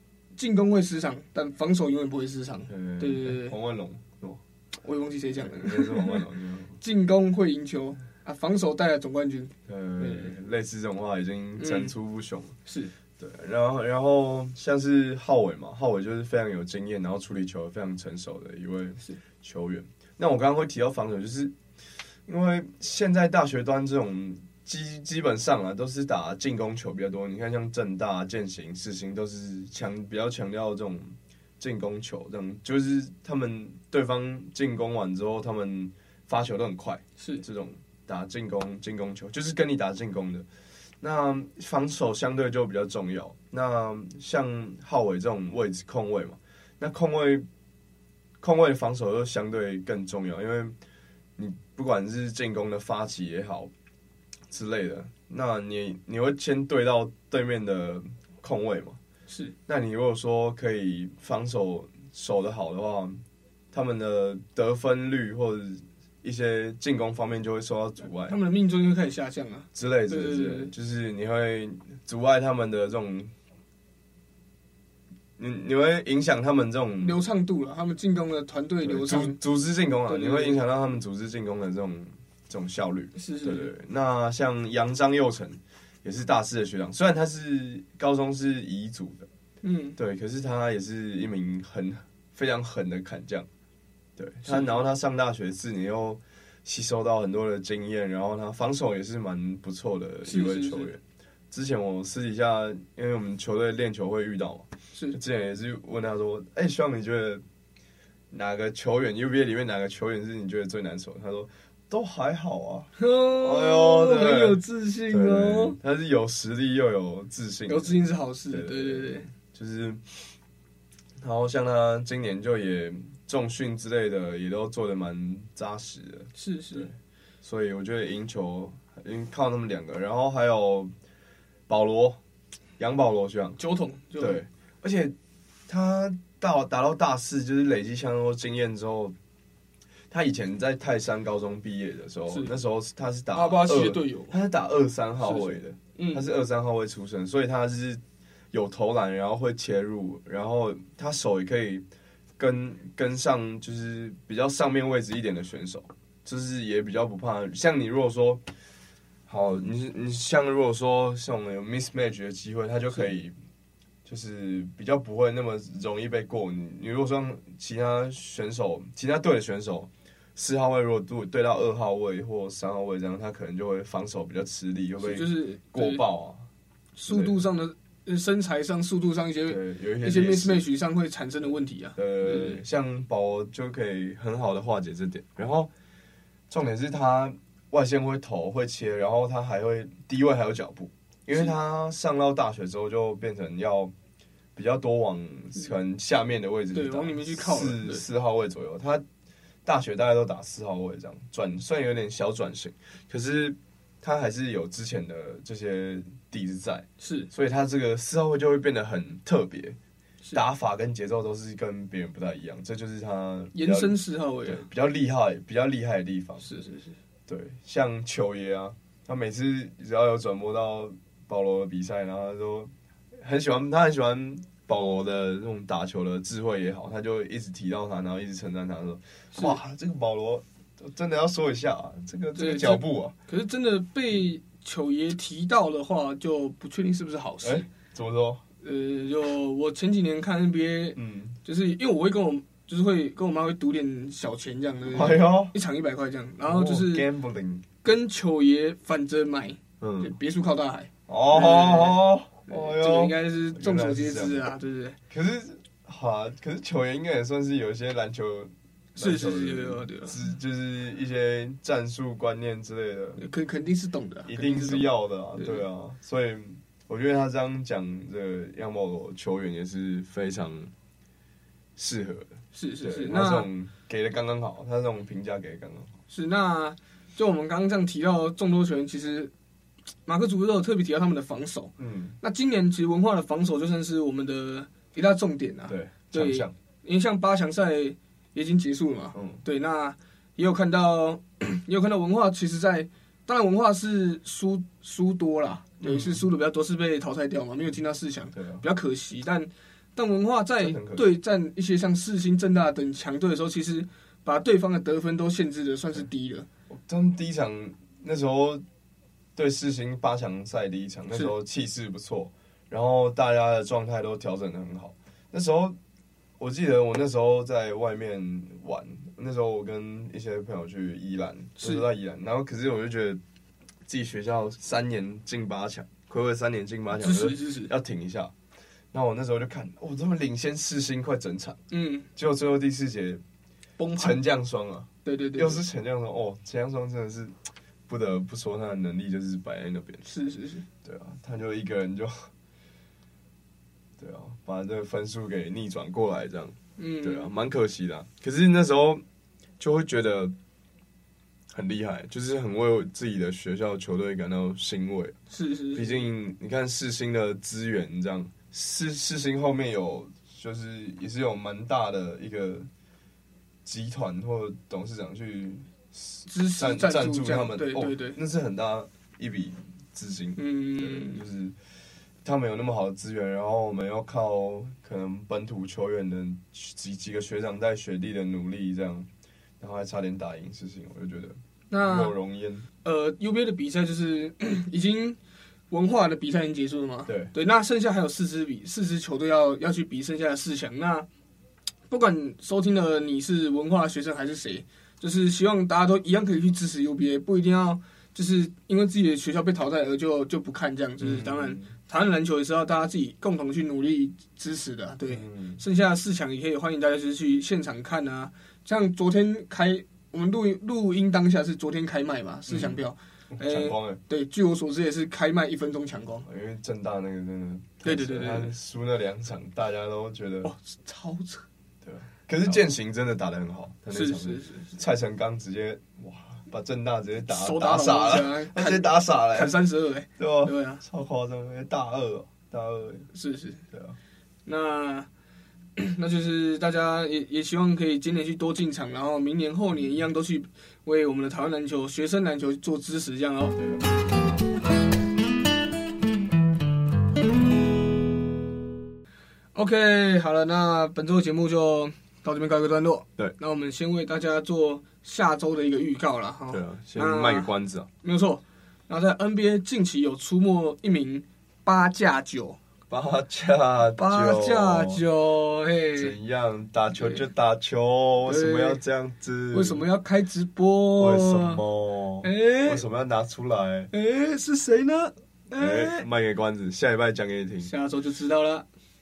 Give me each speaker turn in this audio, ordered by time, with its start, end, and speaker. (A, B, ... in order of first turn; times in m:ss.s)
0:00.4-0:03.5 A
0:02.7-0:04.4 B
0:04.8-0:06.2 A
0:05.4-0:06.8 B
0:06.8-0:10.3 A
0:09.7-0:12.6 B
0:11.6-0:11.9 A
0:12.6-0:12.9 A
0:13.2-0:21.6 B
0:22.2-0:40.4 B
0:41.0-0:47.4 B
0:48.4-0:50.8 B
0:51.4-0:53.7 B
0:54.5-0:59.0 B
0:59.3-0:59.5 A
0:59.7-1:03.2 B
1:03.7-1:08.4 B
1:08.3-1:10.7 A
1:09.7-1:13.3 B
1:15.4-1:17.2 B
1:17.0-1:19.4 A
1:18.8-1:29.3 B
1:20.1-1:20.6 A
1:23.2-1:23.7 A
1:29.6-1:30.0 A
1:30.0-1:33.5 B
1:34.2-1:47.4 B
1:34.4-1:34.8 A
1:40.2-1:40.9 A
1:48.3-2:00.3 B
1:53.0-1:55.8 A
1:57.7-1:59.3 A
2:01.2-2:10.9 B
2:06.3-2:06.9 A
2:11.7-2:12.2 B
2:12.8-2:13.6 B
2:13.6-2:14.4 A
2:14.2-2:15.1 B
2:15.7-2:19.2 B
2:20.1-2:31.8 B
2:23.3-2:24.4 A
2:25.2-2:26.2 A
2:32.4-2:38.4 B
2:39.3-2:43.3 B
2:44.0-2:56.5 B
2:55.0-2:56.0 A
2:57.0-3:02.6 A
2:57.1-2:57.4 B
2:59.5-3:00.6 B
3:02.0-3:05.7 B
3:06.5-3:13.9 B
3:14.5-3:19.0 B
3:16.7-3:18.0 A
3:19.6-3:29.8 B
3:27.0-3:27.3 A
3:30.3-3:36.5 B
3:33.5-3:34.6 A
3:36.4-3:37.0 A
3:37.3-3:53.1 B
3:52.4-3:57.7 A
3:57.4-3:58.4 B
3:58.6-4:07.1 A
4:01.0-4:01.4 B
4:04.9-4:05.5 B
4:06.4-4:07.7 B
4:07.8-4:15.0 A
4:09.8-4:10.1 B
4:11.1-4:14.5 B
4:15.1-4:23.2 B
4:19.0-4:20.2 A
4:23.2-4:25.6 A
4:24.2-4:30.7 B
4:31.8-4:35.9 B
4:32.5-4:33.5 A
4:36.1-4:39.3 A
4:40.0-5:06.5 A
4:41.8-4:42.2 B
4:45.7-4:46.5 B
4:49.1-4:49.4 B
4:55.8-4:56.2 B
4:58.3-4:58.6 B
5:00.6-5:01.1 B
5:06.7-5:08.6 B
5:09.3-5:15.8 B
5:16.4-5:23.2 B
5:23.9-5:28.3 B
5:27.0-5:27.7 A
5:28.9-5:31.6 B
5:31.7-5:32.1 A
5:32.1-5:33.2 B
5:33.8-5:34.2 A
5:34.0-5:37.4 B
5:35.0-5:35.6 A
5:37.9-5:40.0 B
5:40.0-5:40.6 A
5:40.8-5:42.3 B
5:44.0-5:49.0 B
5:46.8-5:47.3 A
5:49.6-5:50.3 B
5:51.5-5:55.2 B
5:55.3-5:56.1 A
5:55.7-6:02.7 B
6:03.6-6:11.6 B
6:06.3-6:08.2 A
6:10.4-6:11.2 A
6:12.2-6:19.1 B
6:19.6-6:22.7 B
6:21.7-6:22.1 A
6:22.8-6:25.2 A
6:25.7-6:31.1 A
6:27.1-6:27.3 B
6:31.9-6:56.2 A
6:41.0-6:41.7 B
6:45.1-6:45.6 B
6:52.5-6:52.8 B
6:53.3-6:54.0 B
6:56.2-7:00.5 B
6:57.8-6:58.5 A
7:00.4-7:01.4 A
7:01.8-7:09.6 B
7:03.9-7:04.7 A
7:07.3-7:10.8 A
7:10.2-7:13.1 B
7:13.1-7:13.6 A
7:14.4-7:15.1 A
7:15.8-7:23.6 A
7:23.6-7:23.8 B
7:29.5-7:37.5 A
7:36.5-7:37.9 B
7:38.0-7:42.6 A
7:42.9-7:45.0 B
7:44.0-7:46.2 A
7:46.0-7:49.8 B
7:46.9-7:47.2 A
7:48.2-7:48.8 A
7:49.5-7:51.6 A
7:51.0-7:53.9 B
7:52.2-7:52.8 A
7:53.9-7:56.0 A
7:55.5-7:57.7 B
7:57.6-7:58.6 A